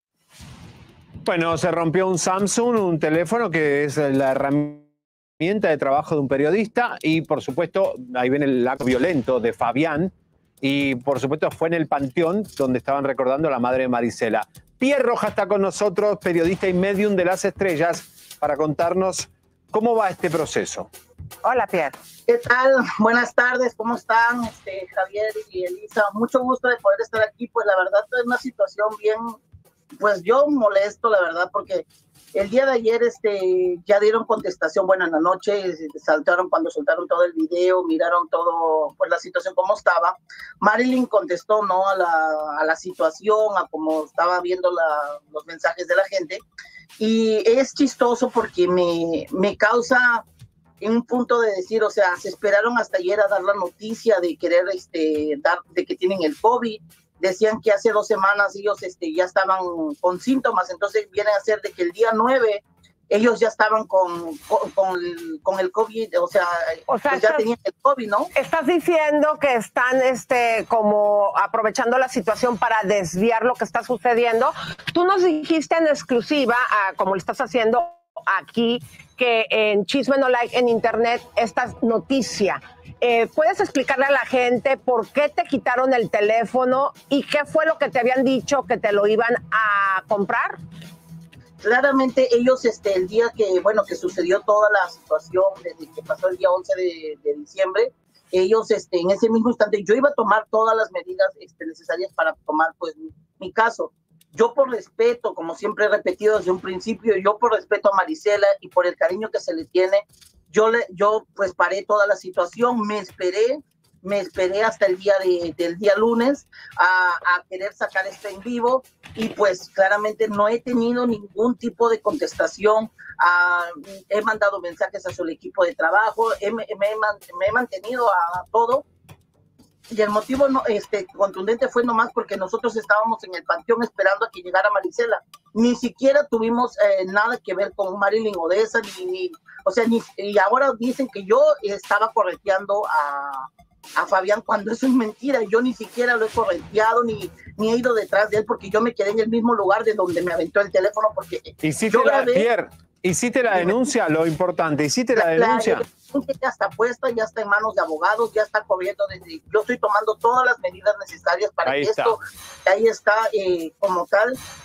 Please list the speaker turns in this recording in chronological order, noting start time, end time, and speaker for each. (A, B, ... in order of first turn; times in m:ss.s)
0:01.2-0:04.9 A
0:05.4-0:20.9 A
0:21.4-0:22.0 B
0:22.3-0:29.4 C
0:29.9-0:46.4 C
0:47.0-0:50.2 C
0:50.8-1:08.3 C
1:06.9-1:07.5 B
1:08.3-1:30.6 B
1:31.6-2:08.8 C
2:09.9-2:32.5 C
2:31.6-2:35.8 A
2:35.2-2:44.4 C
2:41.6-2:42.2 A